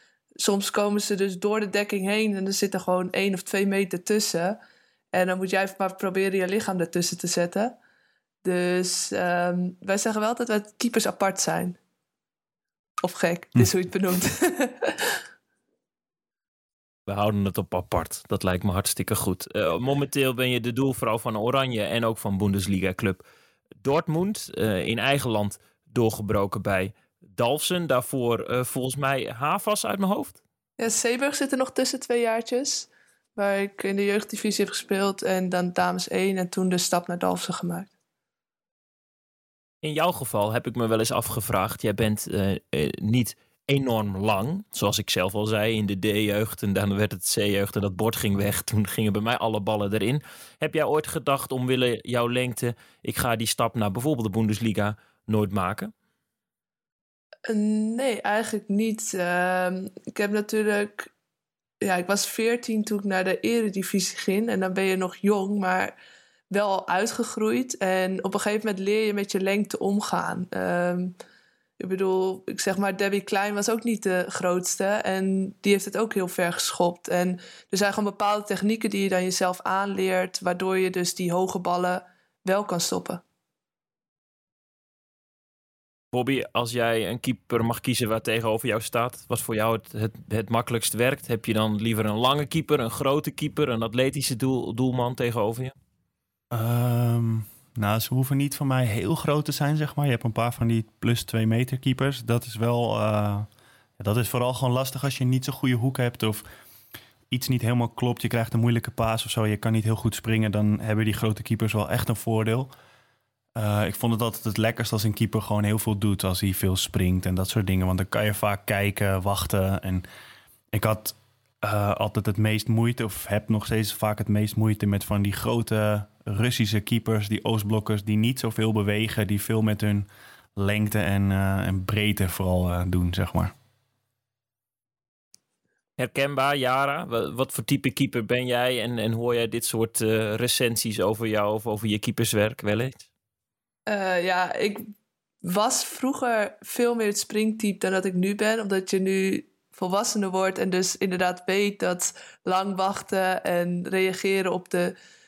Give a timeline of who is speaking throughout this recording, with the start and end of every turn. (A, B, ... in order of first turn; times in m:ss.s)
0:00.4-0:04.6 A
0:05.1-0:07.8 A
0:08.4-0:11.8 A
0:13.0-0:15.2 A
0:17.1-0:23.2 B
0:23.8-0:30.4 B
0:30.8-0:37.9 A
0:39.8-0:55.9 B
0:57.5-1:01.1 A
1:01.8-1:06.0 A
1:06.5-1:11.1 A
1:11.8-1:23.2 A
1:26.1-1:35.7 B
1:36.5-1:43.5 C
1:44.0-1:46.4 C
1:47.3-1:52.7 C
1:53.6-2:00.1 C
2:00.7-2:13.5 C
2:16.0-2:23.1 B
2:23.9-2:24.9 A
2:25.4-2:34.9 A